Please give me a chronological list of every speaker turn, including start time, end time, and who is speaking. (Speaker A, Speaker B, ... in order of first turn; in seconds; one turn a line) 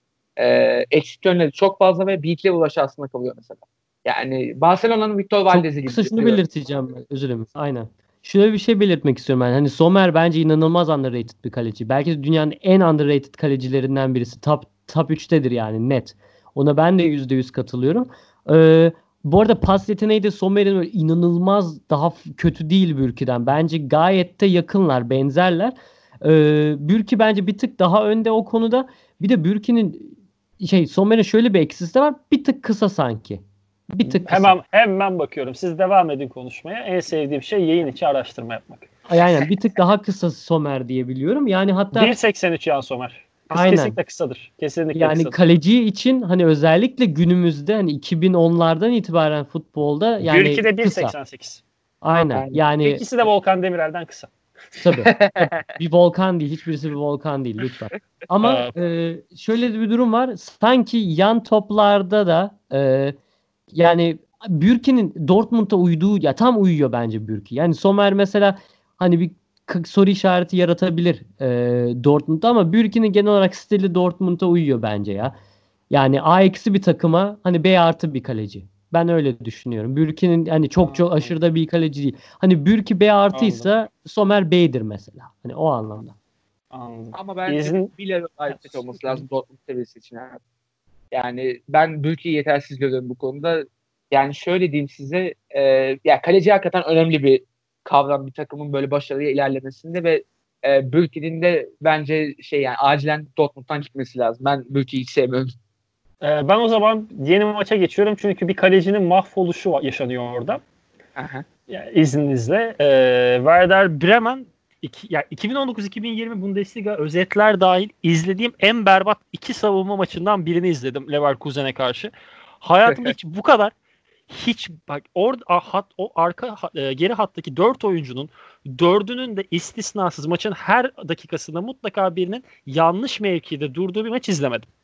Speaker A: 0.4-6.4
Speaker B: 5.5-34.5
Speaker C: 34.0-38.9
Speaker B: 39.1-42.2
Speaker C: 41.9-45.4
Speaker B: 43.5-44.0
Speaker B: 44.9-51.1
Speaker C: 50.2-51.6
Speaker B: 52.0-53.0
Speaker A: 52.3-52.6
Speaker C: 52.8-54.3
Speaker B: 54.8-63.1
Speaker A: 55.0-55.7
Speaker C: 58.4-58.7
Speaker B: 63.7-75.3
Speaker B: 75.9-86.2
Speaker C: 80.8-81.3
Speaker C: 83.3-83.7
Speaker C: 86.7-87.9
Speaker A: 87.1-90.4
Speaker C: 88.5-89.2
Speaker A: 91.1-105.5
Speaker C: 106.2-110.6
Speaker A: 111.2-111.4
Speaker C: 111.7-123.7
Speaker A: 122.9-123.1
Speaker C: 124.3-134.7